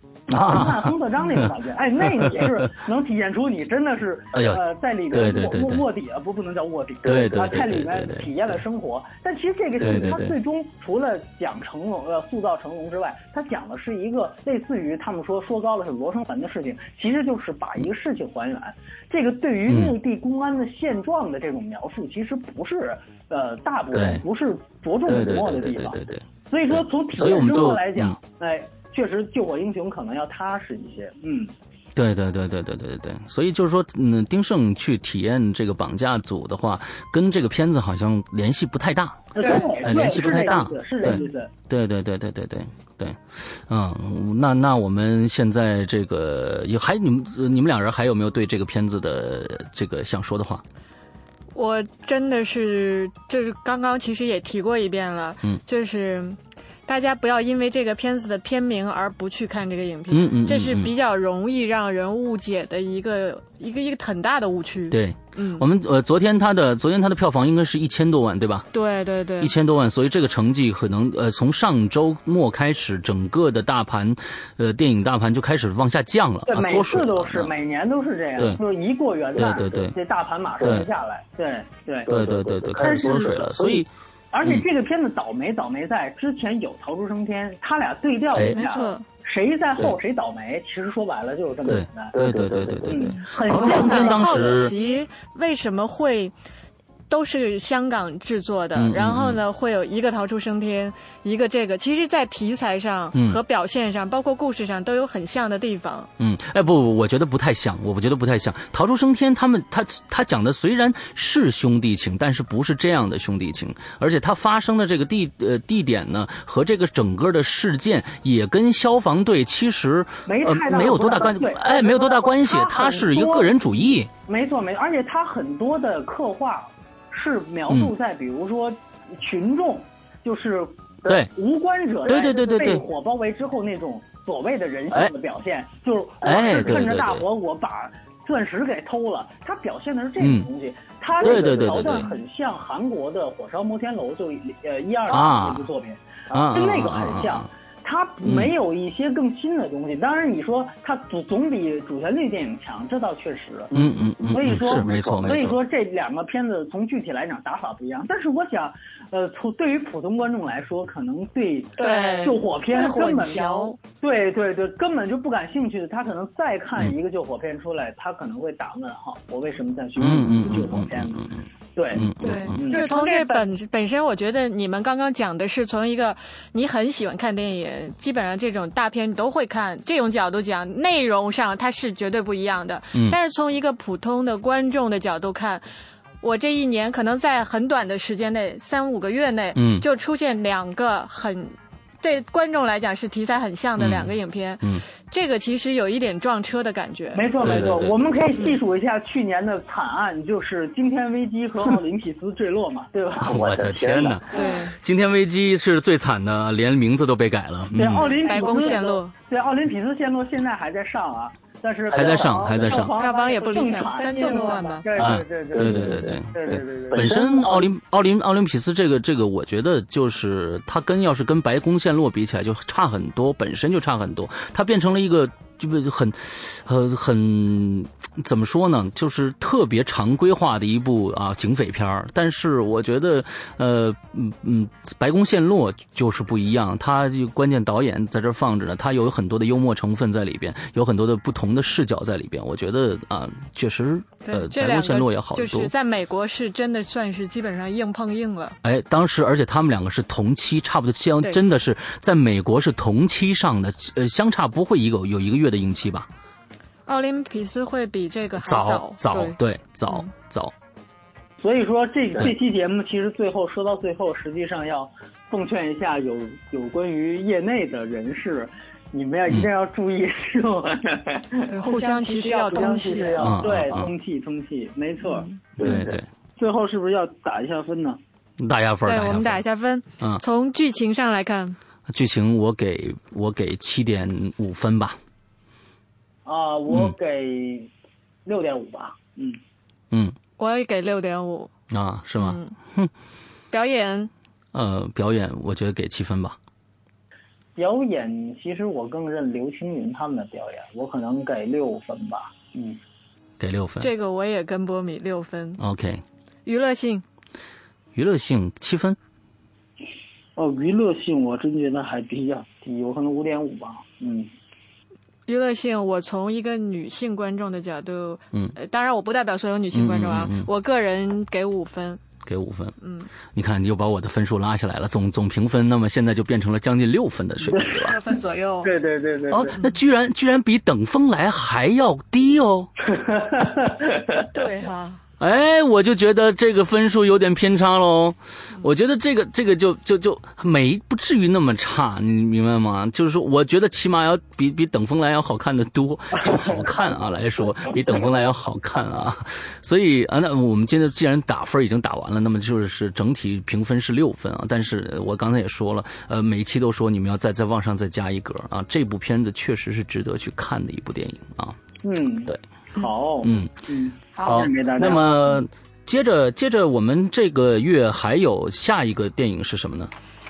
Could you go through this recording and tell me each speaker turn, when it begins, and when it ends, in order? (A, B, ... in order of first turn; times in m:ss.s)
0:00.3-0:01.5 A
0:00.4-0:31.5 B
0:02.2-0:02.7 A
0:04.3-0:04.6 A
0:05.1-0:05.8 A
0:07.0-0:08.3 A
0:09.8-0:10.4 A
0:19.7-0:20.0 A
0:23.9-0:24.2 A
0:25.1-0:28.2 A
0:32.0-0:50.6 A
0:39.4-0:41.5 B
0:39.4-0:39.7 C
0:51.6-1:05.7 C
1:00.1-1:00.9 A
1:04.9-1:08.7 A
1:08.7-1:09.5 C
1:09.4-1:17.5 A
1:16.5-1:23.8 B
1:19.4-1:20.0 A
1:20.6-1:20.9 A
1:22.1-1:23.9 A
1:24.3-1:32.3 B
1:28.3-1:28.6 A
1:28.5-1:29.0 C
1:31.7-1:34.7 A
1:32.8-1:34.7 B
1:33.4-1:36.3 C
1:37.1-1:46.1 C
1:38.8-1:39.4 A
1:43.1-1:43.4 A
1:46.2-2:04.1 A
2:00.3-2:03.5 B
2:04.3-2:53.5 B
2:12.1-2:12.8 A
2:16.2-2:17.3 A
2:20.2-2:20.5 A
2:21.2-2:22.1 A
2:25.1-2:25.7 A
2:26.3-2:27.5 A
2:28.2-2:28.5 A
2:33.7-2:35.6 A
2:41.8-2:43.8 C
2:50.0-2:52.7 A
2:52.2-3:05.6 C
3:06.2-3:17.4 C
3:09.6-3:09.8 A
3:13.8-3:14.8 A
3:17.1-3:23.6 B
3:17.4-3:18.0 A
3:23.2-3:28.2 A
3:24.3-3:24.8 C
3:27.7-3:37.7 B
3:28.0-3:29.1 C
3:31.9-3:33.0 A
3:32.9-3:34.9 C
3:35.0-4:05.7 A
4:04.2-4:08.6 C
4:08.6-4:16.1 A
4:16.9-4:19.4 C
4:18.4-4:20.5 A
4:21.4-4:35.9 B
4:31.5-4:33.4 C
4:33.2-4:33.9 A
4:35.0-4:35.4 C
4:35.6-4:36.1 A
4:36.4-4:38.0 B
4:38.4-4:39.4 A
4:38.8-4:41.6 C
4:41.9-4:45.0 A
4:46.2-4:47.7 B
4:48.3-4:49.4 B
4:49.9-4:50.2 A
4:50.4-4:51.5 C
4:51.7-4:52.9 A
4:52.2-4:52.6 C
4:53.5-4:54.1 C
4:54.5-4:56.4 A
4:57.6-5:02.8 B
5:03.4-5:03.9 A
5:03.8-5:05.6 C
5:05.6-5:06.0 A
5:06.5-5:07.0 C
5:07.9-5:09.0 A
5:10.4-5:14.3 B
5:15.3-5:22.0 C
5:19.7-5:20.5 A
5:22.2-5:22.8 A
5:22.8-5:23.1 C
5:23.3-5:28.0 A
5:27.5-5:27.9 B
5:27.8-5:28.7 C
5:28.6-5:29.6 B
5:29.3-5:32.7 A
5:32.8-5:34.3 B
5:34.3-5:35.0 C
5:35.2-6:01.6 A
6:01.8-6:05.2 B
6:03.2-6:03.5 A
6:04.2-6:04.5 C
6:04.2-6:09.9 A